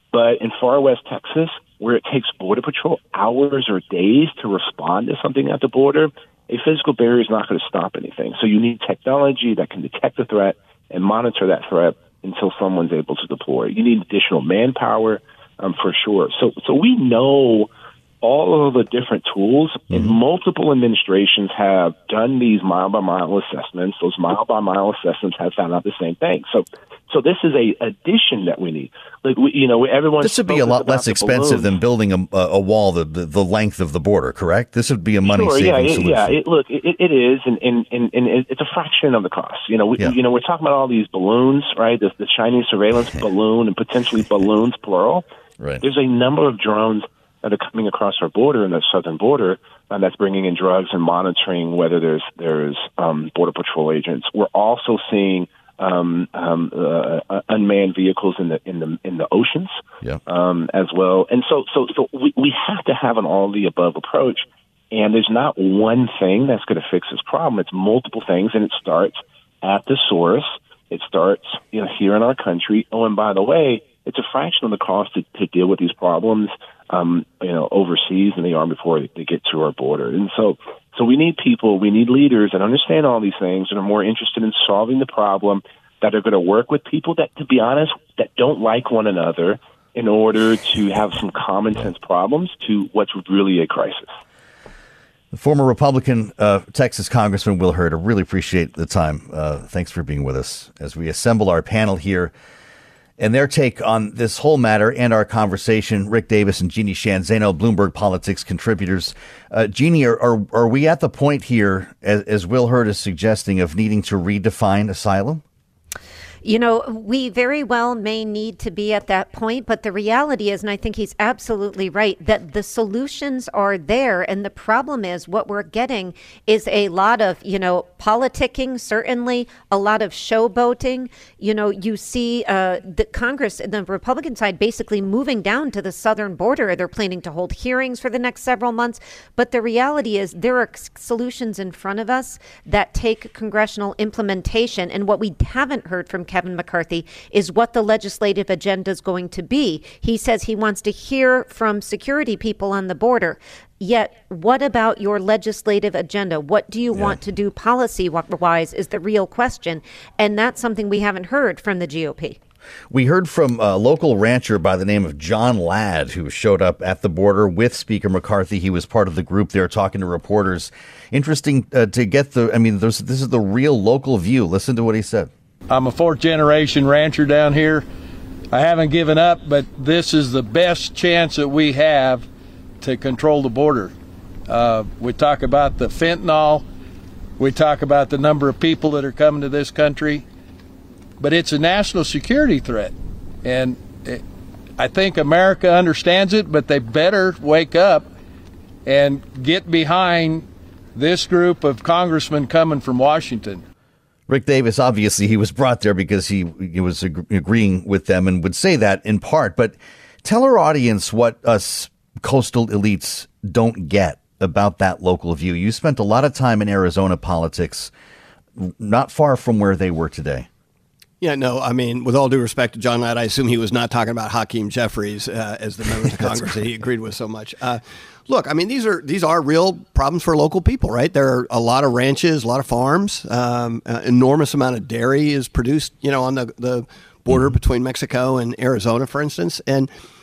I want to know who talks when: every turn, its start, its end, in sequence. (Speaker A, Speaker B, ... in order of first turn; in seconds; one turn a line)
Speaker A: 0.1-17.7
Speaker A: 18.2-31.7
Speaker B: 30.2-36.4
Speaker A: 35.2-45.2
Speaker A: 45.8-94.1
Speaker B: 95.3-102.3
Speaker B: 103.2-115.4
Speaker C: 116.4-162.4
Speaker B: 162.9-175.3
Speaker D: 175.7-177.8
Speaker D: 178.5-182.2
Speaker D: 182.8-183.9
Speaker D: 184.5-186.6
Speaker D: 187.4-190.2
Speaker D: 191.2-194.2
Speaker D: 194.8-198.1
Speaker D: 198.8-203.6
Speaker B: 204.3-217.9
Speaker B: 218.6-220.5
Speaker E: 221.2-239.9
Speaker B: 226.2-226.6
Speaker B: 237.3-237.6